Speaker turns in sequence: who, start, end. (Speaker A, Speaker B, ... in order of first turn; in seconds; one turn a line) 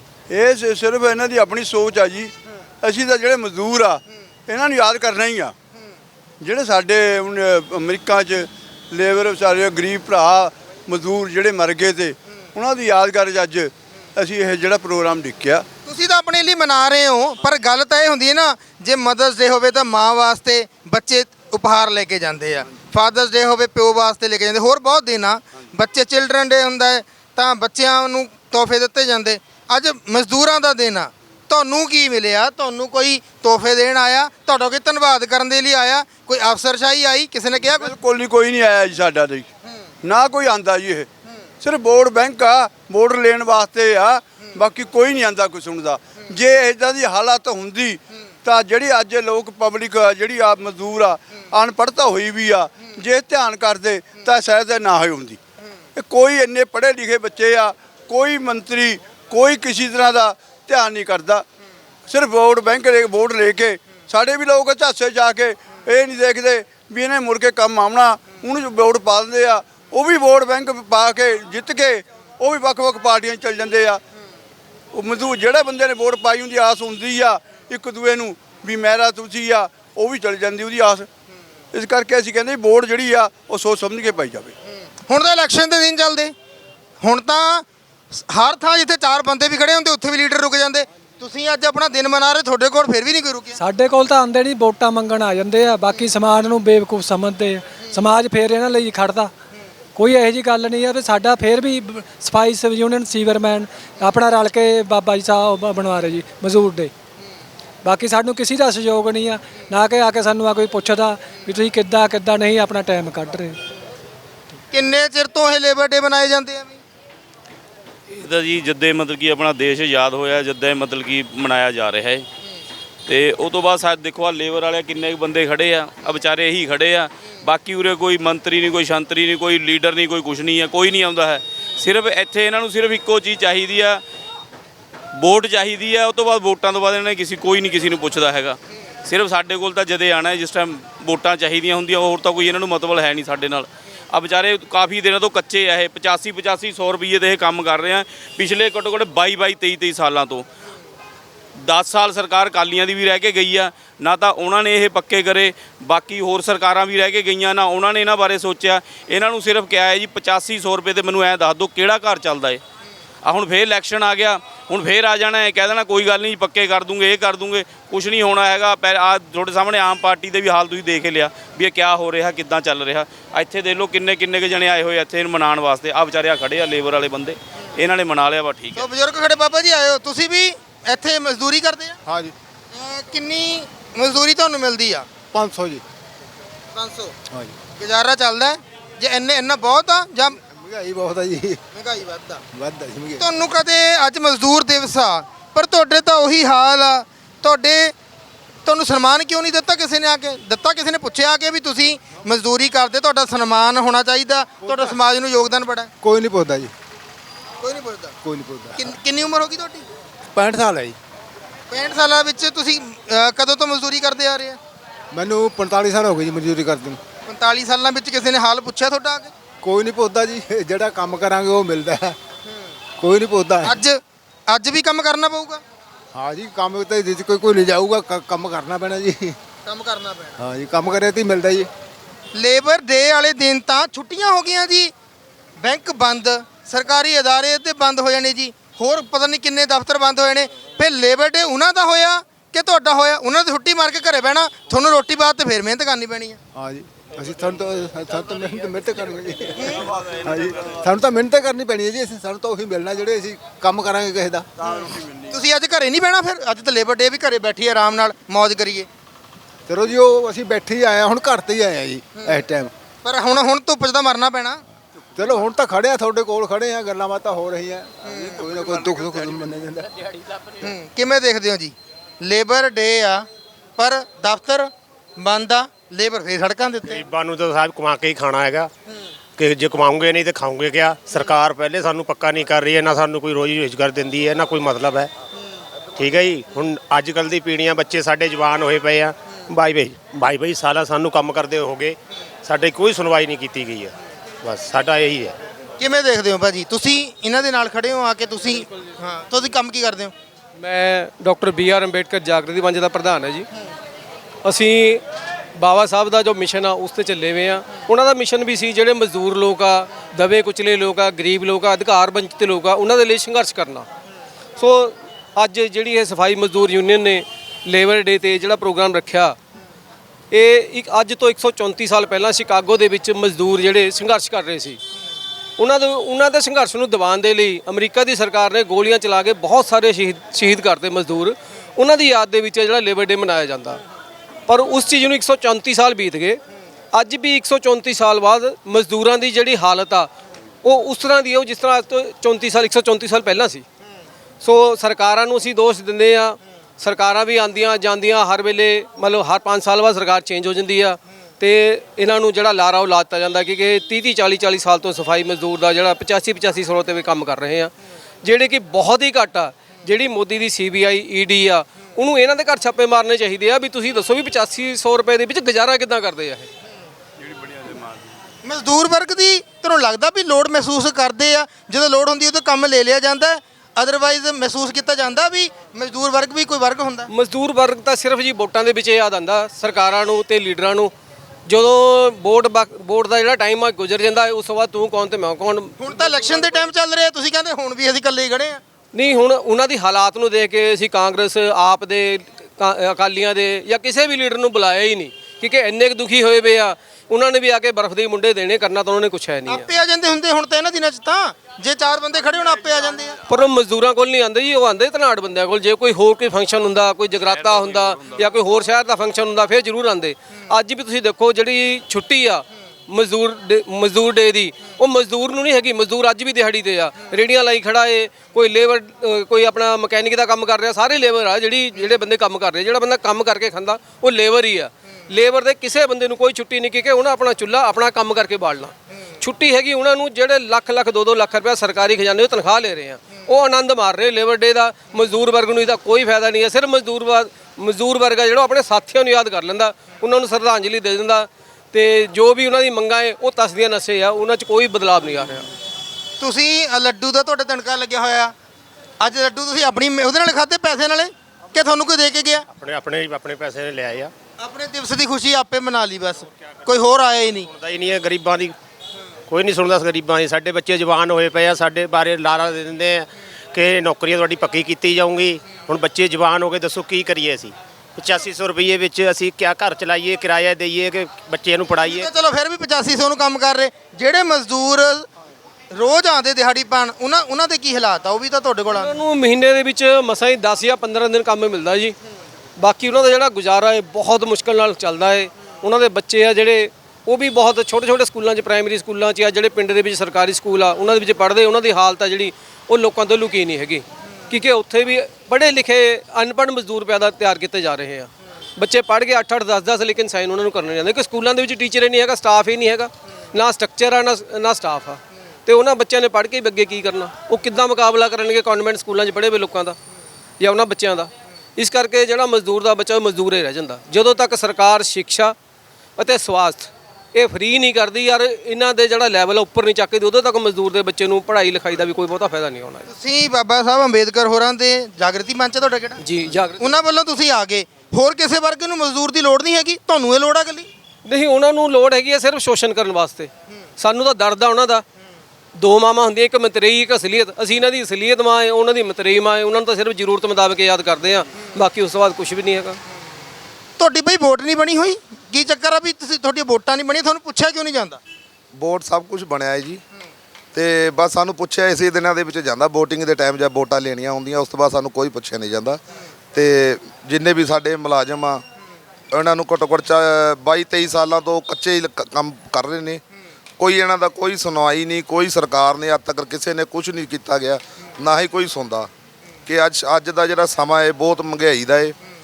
Speaker A: 0.3-5.5
Speaker A: 6.4-15.6
Speaker B: 15.8-37.9
Speaker A: 37.7-39.5
Speaker A: 40.0-41.1
Speaker A: 41.6-55.4
Speaker A: 55.9-61.5
Speaker A: 62.1-74.0
Speaker A: 74.9-81.1
Speaker A: 81.7-84.5
Speaker B: 85.0-86.3
Speaker B: 87.0-87.7
Speaker B: 88.2-93.6
Speaker C: 93.6-99.3
Speaker C: 100.0-106.9
Speaker C: 107.8-113.6
Speaker B: 114.7-116.8
Speaker D: 118.1-122.2
Speaker D: 123.1-134.0
Speaker D: 135.2-150.4
Speaker D: 151.7-162.6
Speaker D: 163.2-178.8
Speaker B: 178.7-182.0
Speaker E: 182.1-182.3
Speaker B: 182.7-185.1
Speaker E: 185.3-185.8
Speaker B: 186.7-187.1
Speaker E: 187.3-187.6
Speaker B: 187.8-190.4
Speaker E: 190.5-191.6
Speaker B: 191.7-192.4
Speaker E: 192.5-193.2
Speaker B: 193.2-197.9
Speaker B: 198.6-205.9
Speaker E: 204.6-204.9
Speaker E: 206.0-206.7
Speaker B: 207.6-208.1
Speaker E: 208.2-208.9
Speaker B: 208.7-209.8
Speaker E: 210.3-211.0
Speaker B: 211.7-214.6
Speaker E: 215.1-217.0
Speaker B: 217.2-219.3
Speaker E: 219.6-222.2
Speaker E: 223.0-223.8
Speaker B: 223.6-225.6
Speaker E: 226.1-229.4
Speaker B: 229.7-230.3
Speaker E: 230.4-231.7
Speaker B: 232.3-234.9
Speaker B: 235.6-246.4
Speaker E: 246.6-254.5
Speaker A: 249.9-250.8
Speaker A: 254.6-255.3
Speaker B: 255.3-258.9
Speaker E: 259.7-262.7
Speaker B: 262.2-262.4
Speaker B: 263.0-264.6
Speaker E: 265.2-270.0
Speaker B: 268.0-268.4
Speaker B: 270.6-273.2
Speaker B: 273.8-277.0
Speaker F: 276.9-278.7
Speaker F: 279.4-285.1
Speaker F: 285.9-295.4
Speaker B: 295.8-300.1
Speaker G: 300.6-303.5
Speaker G: 304.4-305.0
Speaker G: 305.6-313.9
Speaker G: 314.6-319.4
Speaker G: 320.3-324.8
Speaker G: 325.6-333.8
Speaker G: 334.5-340.1
Speaker G: 340.6-343.6
Speaker G: 344.4-366.5
Speaker B: 368.4-377.1
Speaker G: 377.1-380.9
Speaker G: 381.4-386.2
Speaker B: 385.8-388.6
Speaker G: 388.9-399.7
Speaker B: 399.5-403.2
Speaker G: 403.3-445.5
Speaker D: 407.1-408.4
Speaker B: 446.2-448.3
Speaker B: 449.0-452.4
Speaker F: 452.5-454.1
Speaker B: 454.4-457.5
Speaker F: 457.5-458.5
Speaker F: 459.3-472.1
Speaker B: 471.8-475.1
Speaker B: 475.7-478.9
Speaker G: 478.7-482.0
Speaker G: 482.6-509.8
Speaker G: 510.4-515.3
Speaker G: 516.0-522.9
Speaker B: 522.9-526.0
Speaker G: 526.0-526.8
Speaker B: 526.6-530.7
Speaker G: 531.0-534.8
Speaker G: 535.5-542.8
Speaker B: 543.8-548.0
Speaker H: 548.5-549.8
Speaker H: 550.5-555.8
Speaker H: 556.3-558.4
Speaker H: 559.1-563.0
Speaker H: 563.6-568.9
Speaker H: 569.5-571.9